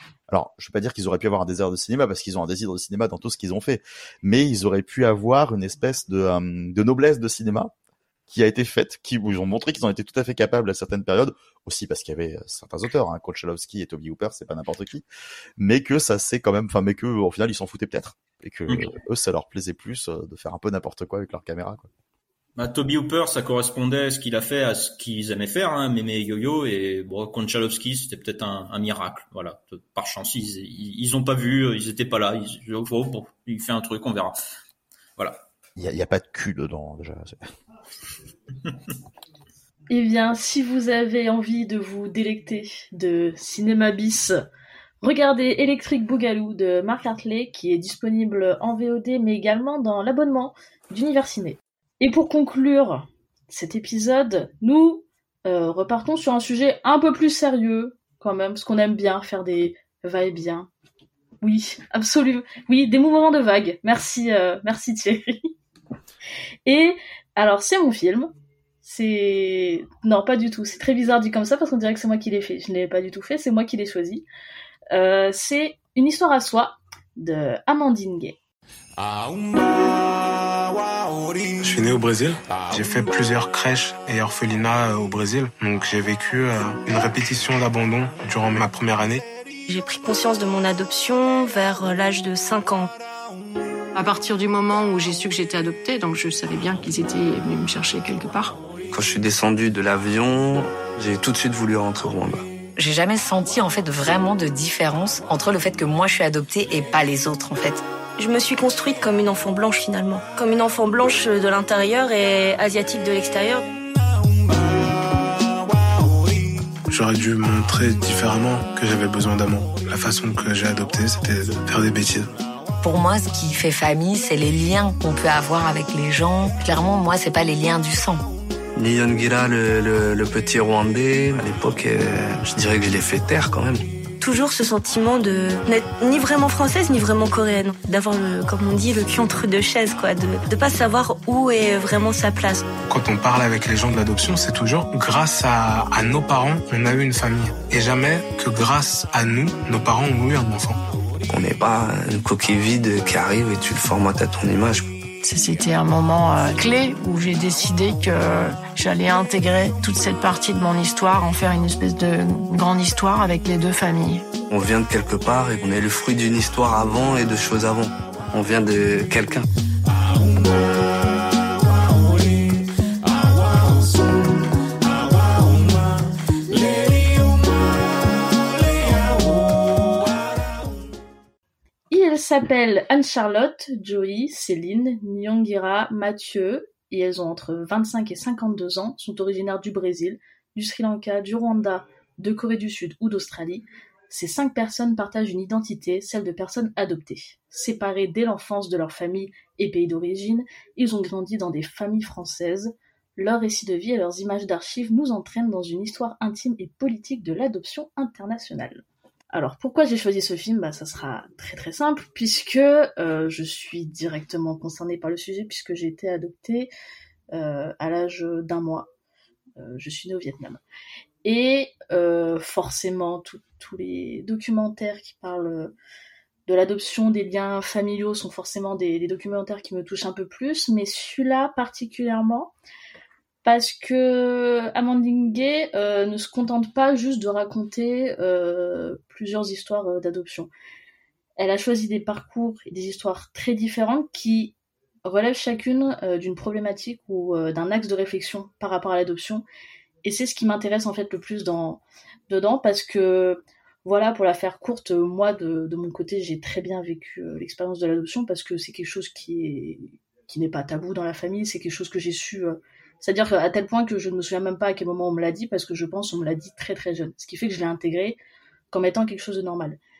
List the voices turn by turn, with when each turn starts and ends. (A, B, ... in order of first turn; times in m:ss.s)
0:00.3-0:07.7 A
0:08.3-0:15.0 A
0:15.6-0:21.9 A
0:22.6-0:34.3 B
0:35.8-0:37.4 A
0:39.9-0:44.3 C
0:45.0-1:00.7 C
1:01.4-1:05.5 C
1:06.6-1:08.3 C
1:08.8-1:14.2 C
1:14.9-1:18.4 C
1:21.6-1:29.2 D
1:29.7-1:32.9 E
1:33.9-1:38.6 F
1:38.9-1:42.4 G
1:42.9-1:47.8 H
1:48.2-1:53.6 E
1:56.9-2:02.3 D
2:02.8-2:08.2 H
2:08.8-2:13.8 G
2:14.2-2:22.7 E
2:22.8-2:30.8 D
2:31.3-2:34.9 G
2:35.2-2:44.2 F
2:44.5-2:49.5 G
3:01.9-3:36.7 C
3:37.3-3:38.9 C
3:39.6-3:40.6 C
3:41.2-3:45.7 C
3:46.4-3:52.5 C
3:53.4-4:00.5 C
4:01.4-4:04.5 C
4:05.0-4:09.4 C
4:10.0-4:28.2 C
4:28.7-4:29.8 C